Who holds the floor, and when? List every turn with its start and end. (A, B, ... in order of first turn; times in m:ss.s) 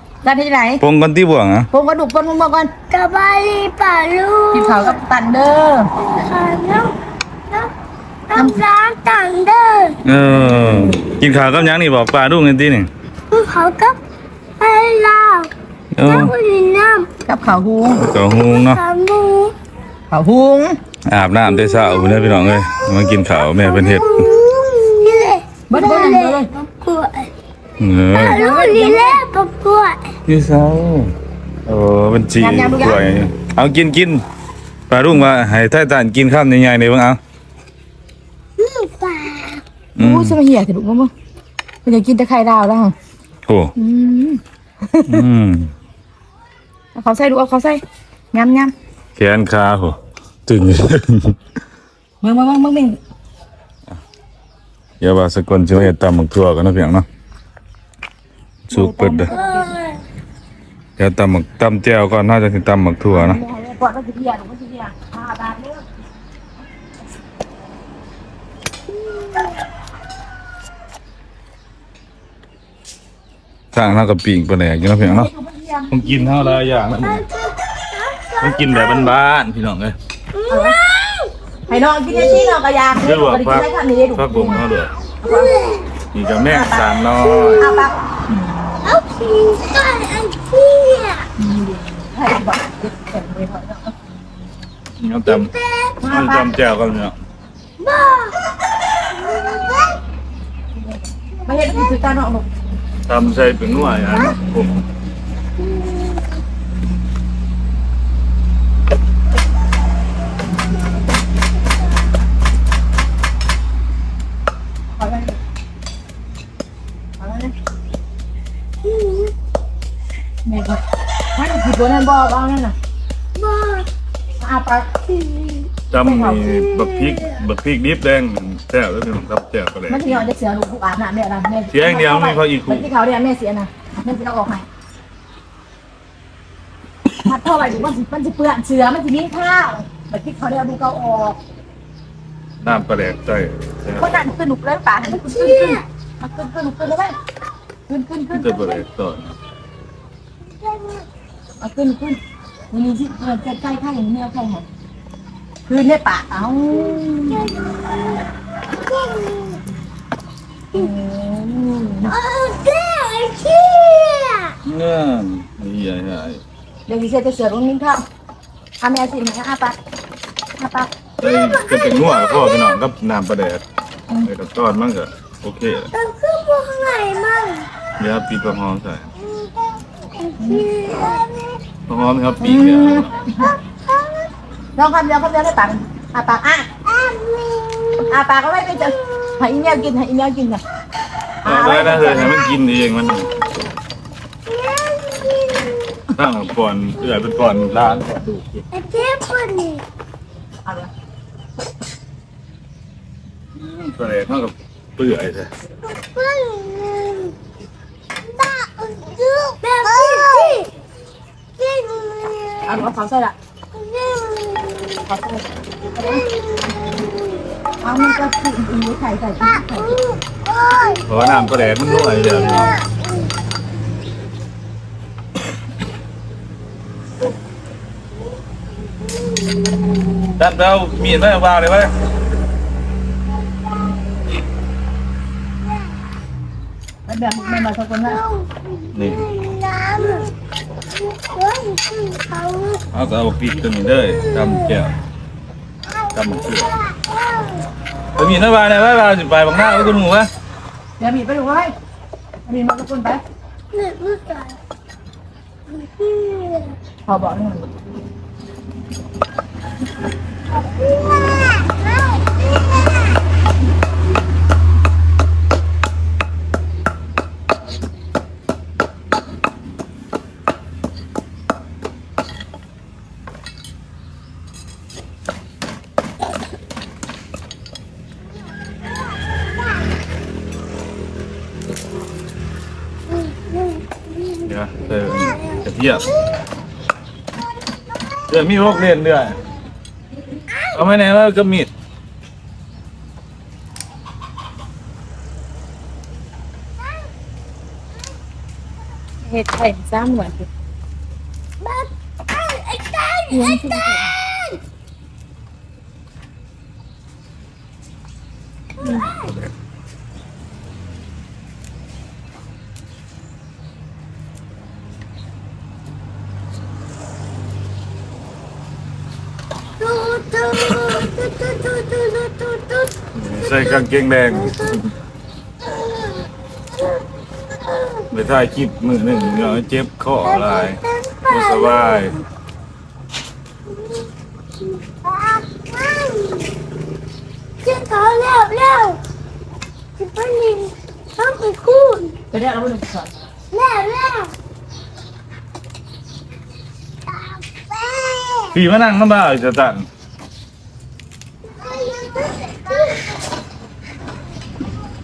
0:00.2-0:00.8 A
0:00.8-0:01.7 B
0:01.7-0:02.7 A
0:02.9-0:05.0 C
0:04.5-0:05.9 A
0:06.0-0:06.9 C
0:08.3-0:10.0 C
0:08.3-0:08.6 A
0:10.0-0:12.9 B
0:10.6-0:10.9 A
0:13.3-0:14.0 C
0:14.6-0:15.5 C
0:15.9-0:16.3 B
0:16.0-0:17.1 C
0:17.2-0:18.0 A
0:18.0-0:18.8 B
0:18.3-0:19.5 C
0:20.1-0:20.8 A
0:21.1-0:24.3 B
0:21.5-0:27.3 C
0:25.7-0:26.5 A
0:27.8-0:28.4 B
0:28.1-0:30.1 C
0:28.2-0:29.2 A
0:30.2-0:31.1 B
0:31.6-0:34.2 B
0:32.4-0:33.0 A
0:34.9-0:37.2 B
0:38.6-0:39.6 C
0:40.0-0:40.4 B
0:40.0-0:41.1 A
0:41.8-0:42.9 A
0:43.5-0:43.7 B
0:43.8-0:45.2 A
0:45.1-0:45.7 B
0:46.9-0:47.8 A
0:48.3-0:48.7 A
0:49.2-0:51.4 B
0:52.2-0:53.0 A
0:55.0-0:57.1 B
0:58.7-0:59.3 B
0:58.7-0:59.8 A
0:59.3-1:00.0 C
1:01.0-1:03.4 B
1:03.1-1:05.8 A
1:08.9-1:09.6 C
1:13.7-1:15.3 B
1:15.0-1:16.2 A
1:15.9-1:17.2 B
1:16.4-1:19.1 C
1:18.4-1:20.0 B
1:20.3-1:21.3 C
1:20.5-1:20.8 A
1:21.7-1:24.6 A
1:22.1-1:22.5 C
1:23.0-1:24.9 B
1:25.2-1:25.5 A
1:25.2-1:25.9 C
1:26.1-1:27.6 B
1:26.5-1:26.9 A
1:27.2-1:27.9 C
1:27.6-1:28.8 A
1:28.8-1:31.3 C
1:31.4-1:33.9 A
1:35.0-1:35.5 B
1:35.2-1:36.0 C
1:36.0-1:36.5 A
1:36.0-1:37.2 B
1:37.8-1:38.4 C
1:39.1-1:40.0 C
1:40.9-1:42.5 A
1:41.4-1:41.9 C
1:43.1-1:44.7 B
1:44.1-1:44.3 C
1:45.6-1:46.3 C
1:55.0-1:55.4 A
1:57.2-1:57.5 A
1:58.8-1:59.3 C
2:00.4-2:00.8 A
2:01.3-2:02.8 A
2:03.4-2:03.9 C
2:04.4-2:04.9 A
2:05.1-2:05.7 C
2:05.9-2:10.2 B
2:06.0-2:06.5 A
2:06.5-2:07.4 C
2:09.9-2:14.6 A
2:11.7-2:12.9 B
2:17.2-2:21.4 A
2:22.6-2:24.1 B
2:24.0-2:27.2 A
2:25.2-2:25.8 C
2:27.9-2:28.8 A
2:28.3-2:29.4 B
2:30.4-2:31.0 C
2:31.6-2:32.2 A
2:32.7-2:34.6 A
2:35.7-2:37.5 A
2:36.9-2:39.6 C
2:40.7-2:42.1 A
2:42.1-2:44.6 C
2:44.6-2:46.4 B
2:46.9-2:48.0 A
2:48.8-2:49.8 A
2:50.6-2:50.9 A
2:51.2-2:53.6 B
2:51.2-2:52.8 C
2:54.2-2:55.9 B
2:55.9-2:57.7 C
2:58.0-2:59.1 B
2:59.2-3:01.6 C
3:00.4-3:00.7 A
3:01.9-3:03.1 B
3:02.4-3:03.5 A
3:03.4-3:04.3 C
3:04.8-3:06.7 A
3:06.9-3:08.2 C
3:08.0-3:10.6 A
3:08.7-3:09.3 C
3:11.4-3:12.3 A
3:11.4-3:13.3 B
3:14.5-3:16.0 C
3:16.1-3:18.6 B
3:17.1-3:17.5 C
3:18.7-3:19.8 C
3:20.6-3:20.9 A
3:23.6-3:25.5 B
3:25.8-3:27.3 C
3:28.3-3:30.7 C
3:31.6-3:32.9 C
3:32.6-3:33.3 A
3:33.7-3:35.0 C
3:35.0-3:36.2 A
3:36.0-3:37.4 C
3:37.8-3:40.0 A
3:39.8-3:42.8 C
3:41.1-3:42.8 B
3:49.1-3:50.3 C
3:50.4-3:51.9 B
3:57.1-3:58.2 A
3:58.1-4:00.3 C
3:58.9-3:59.2 B
4:01.0-4:02.8 C
4:02.9-4:04.9 B
4:04.0-4:04.7 C
4:05.9-4:07.7 C
4:06.1-4:06.8 B
4:08.2-4:10.3 B
4:11.0-4:11.7 A
4:12.4-4:13.2 A
4:13.7-4:14.6 C
4:15.7-4:16.8 C
4:17.0-4:17.7 A
4:20.8-4:23.0 C
4:43.9-4:44.3 C
4:44.4-4:46.1 B
4:48.3-4:49.4 B
4:50.7-4:51.7 B
4:59.2-5:00.5 A
5:01.6-5:04.6 C
5:03.3-5:04.1 A
5:08.8-5:09.4 C
5:19.8-5:22.9 C
5:23.1-5:24.8 B
5:24.3-5:24.8 C
5:25.6-5:26.3 C
5:26.8-5:28.1 C
5:28.1-5:32.2 B
5:30.2-5:32.1 C
5:34.8-5:36.5 C
5:37.6-5:39.0 C
5:40.0-5:42.1 C
5:42.3-5:43.1 A
5:43.5-5:44.3 C
5:47.1-5:48.5 C
5:48.5-5:49.9 B
5:51.4-5:53.1 C